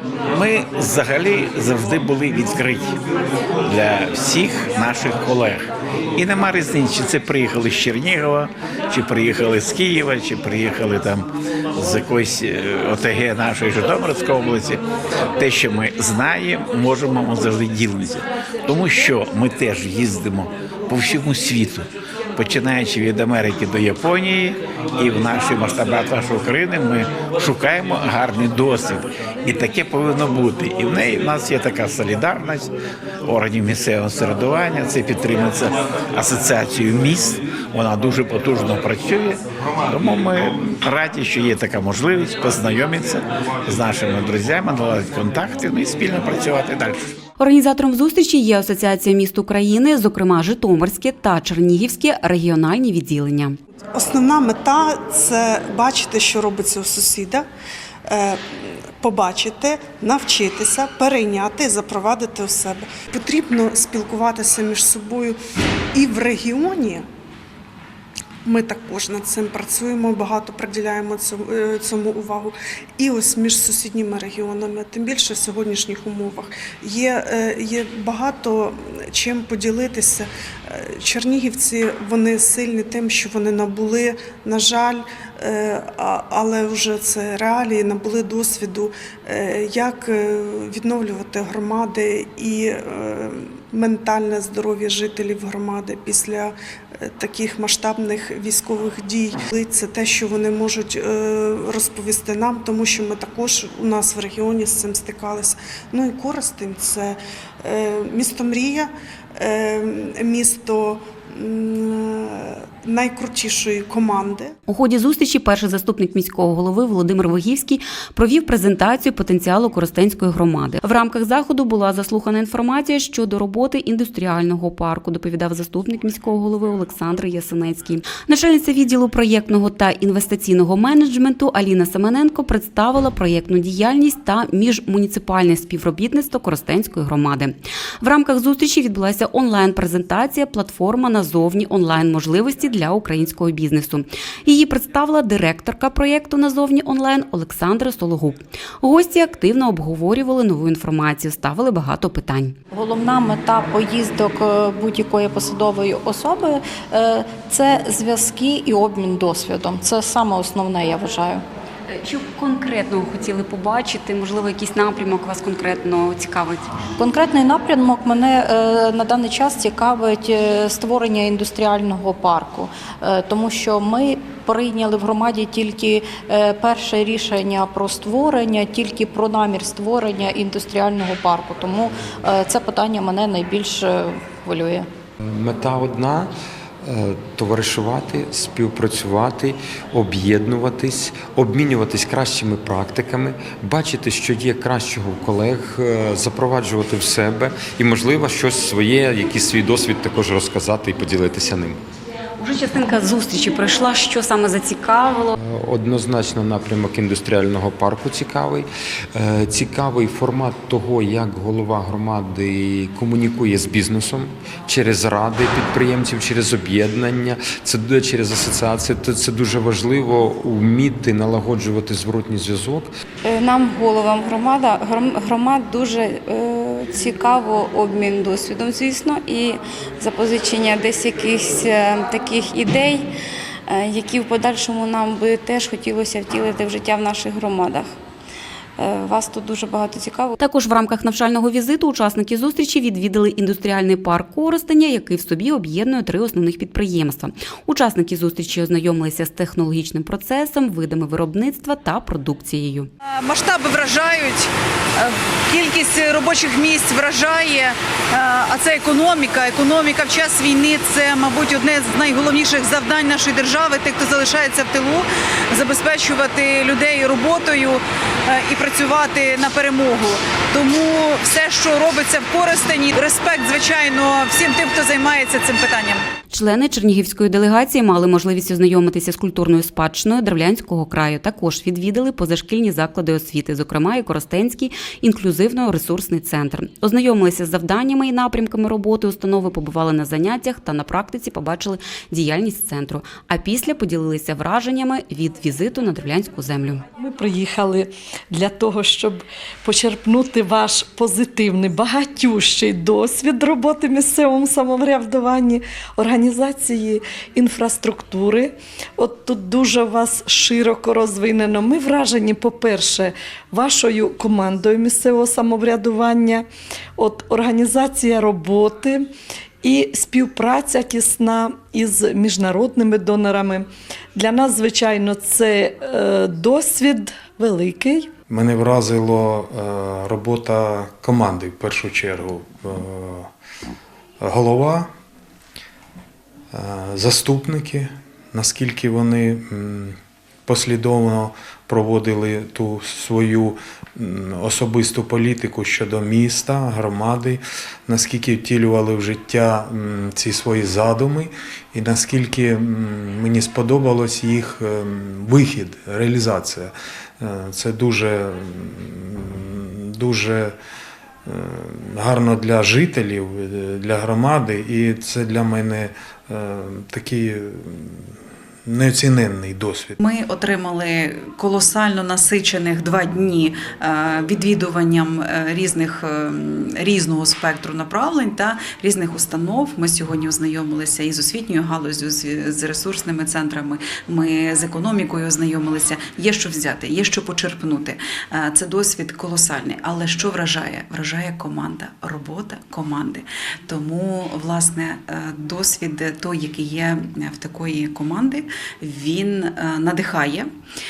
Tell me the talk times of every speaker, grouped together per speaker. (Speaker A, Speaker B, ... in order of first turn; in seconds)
Speaker A: 0.3-2.9, 3.6-14.8, 15.4-32.7, 33.2-47.1
Speaker B: 47.4-53.6, 114.7-152.6, 161.9-166.7, 202.4-205.3, 240.4-252.9, 276.3-296.8
Speaker C: 53.9-57.5, 58.1-65.4, 65.9-67.0, 68.5-114.5
Speaker D: 152.7-161.4, 167.0-184.9
Speaker E: 185.2-186.3, 186.8-201.8, 205.3-222.9
Speaker F: 223.2-233.1, 233.7-237.9, 238.8-240.4
Speaker G: 253.1-276.0
Speaker H: 297.0-316.5, 317.0-319.1, 319.6-328.1
Speaker I: 328.3-333.3, 334.2-334.9, 336.5-360.6, 361.3-368.1, 368.7-370.0
Speaker J: 370.0-400.5